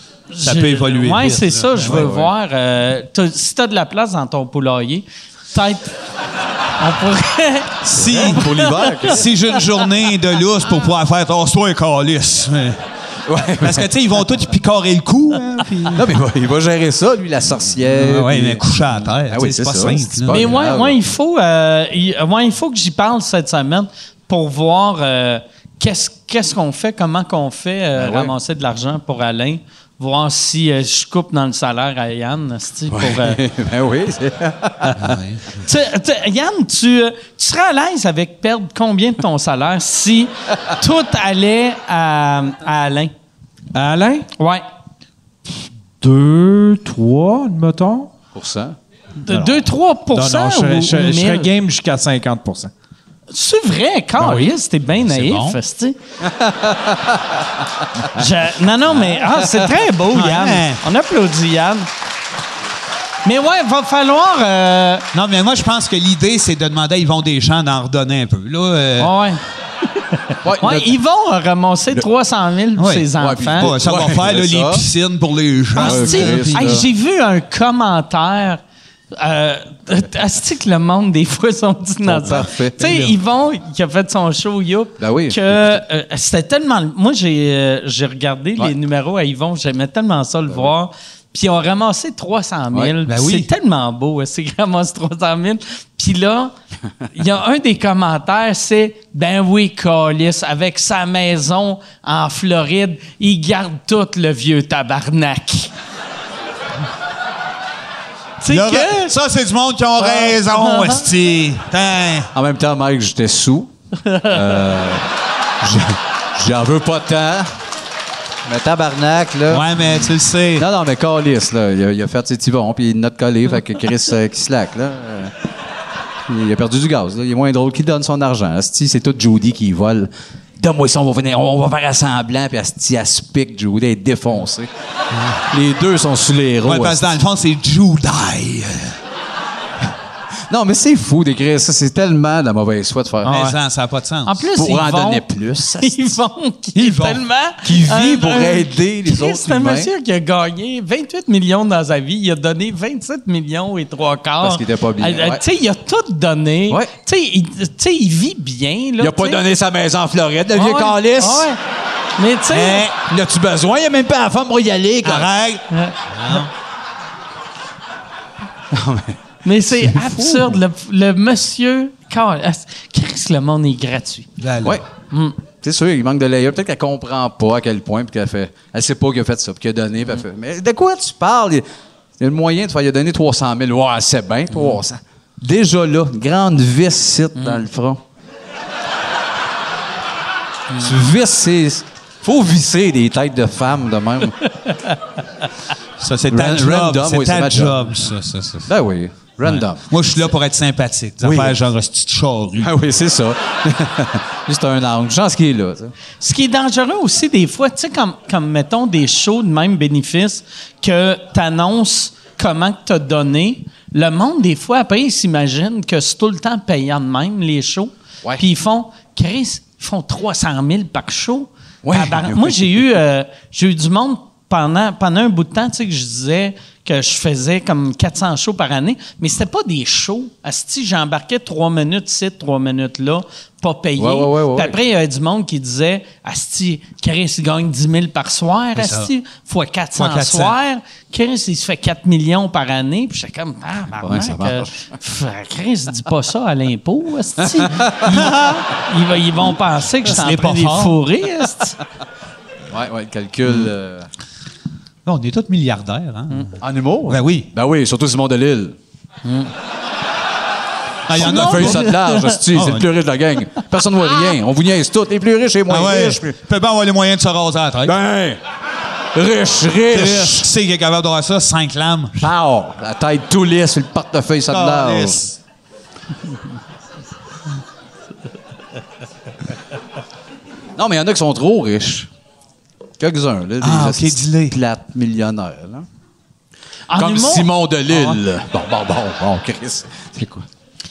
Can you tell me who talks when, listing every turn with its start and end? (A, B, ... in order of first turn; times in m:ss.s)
0:00.3-0:05.9 A
0:00.4-0:02.1 B
0:01.8-0:02.3 C
0:06.8-0:07.8 A
0:07.8-0:08.5 B
0:07.9-0:09.3 C
0:08.3-0:09.0 A
0:09.0-0:12.8 B
0:13.2-0:13.9 C
0:13.6-0:16.0 B
0:15.9-0:18.6 C
0:17.9-0:20.5 B
0:19.3-0:21.0 C
0:20.3-0:33.4 A
0:28.0-0:28.3 C
0:32.9-0:35.2 C
0:35.0-0:35.4 B
0:35.5-0:43.1 A
0:43.7-0:44.3 D
0:44.4-0:44.6 A
0:46.0-0:48.2 D
0:48.3-0:48.8 C
0:49.2-0:51.5 A
0:49.3-0:52.7 D
0:53.3-0:56.0 A
0:55.0-0:55.6 B
0:56.2-0:57.4 C
0:58.0-1:01.9 A
1:00.1-1:00.8 B
1:03.2-1:05.0 A
1:05.1-1:09.1 B
1:09.0-1:09.4 A
1:10.0-1:13.7 A
1:10.4-1:10.9 C
1:12.8-1:16.8 B
1:13.2-1:14.8 C
1:15.8-1:16.8 C
1:15.8-1:36.5 A
1:22.0-1:23.1 C
1:25.0-1:25.8 C
1:33.1-1:33.5 B
1:37.1-1:45.7 A
1:48.4-1:49.1 A
1:48.5-1:52.3 B
1:50.0-1:51.0 A
1:52.3-1:55.1 C
1:55.6-1:57.5 C
1:58.4-1:59.8 C
1:59.5-2:00.6 B
2:00.6-2:05.3 C
2:06.3-2:14.7 C
2:15.5-2:17.0 C
2:16.6-2:19.0 B
2:20.5-2:23.4 C
2:23.2-2:23.6 A
2:23.3-2:24.4 B
2:24.2-2:25.2 A
2:24.5-2:26.1 C
2:25.8-2:39.4 A
2:26.8-2:27.2 B
2:27.6-2:29.9 C
2:34.4-2:35.4 C
2:39.0-2:41.5 C
2:40.5-2:41.6 A
2:42.2-2:42.9 A
2:42.5-2:43.0 B
2:43.0-2:45.3 C
2:45.0-2:46.5 B
2:45.7-2:46.4 A
2:48.7-2:49.2 C
2:49.4-2:54.3 A
2:49.8-2:50.5 C
2:54.4-2:54.8 B
2:55.1-2:55.4 A
2:55.6-3:01.6 C
3:02.2-3:08.0 C
3:07.4-3:07.6 A
3:10.8-3:14.4 C
3:14.6-3:14.9 A
3:16.0-3:18.7 B
3:16.3-3:17.9 C
3:18.6-3:19.8 C
3:19.4-3:22.7 B
3:21.2-3:21.6 C
3:22.6-3:25.9 C
3:26.2-4:11.8 A
3:41.8-3:42.6 C
3:54.0-3:54.8 C
3:58.8-3:59.1 B
4:00.0-4:00.5 B
4:04.0-4:04.7 C
4:07.6-4:08.3 C
4:08.0-4:08.6 B
4:10.0-4:11.0 B
4:12.7-4:14.1 C
4:15.0-4:16.6 B
4:16.6-4:18.8 C
4:17.1-4:17.5 B
4:19.2-4:19.5 A
4:21.1-4:22.9 B
4:21.1-4:26.3 C
4:21.2-4:22.3 A
4:25.7-4:27.9 B
4:27.8-4:28.4 C
4:29.1-4:30.5 C
4:29.9-4:32.2 B
4:32.2-4:35.2 C
4:34.5-4:35.4 B
4:40.8-4:42.1 C
4:43.0-4:45.8 C
4:43.6-4:44.5 B
4:46.9-4:47.5 A
4:47.0-4:50.4 C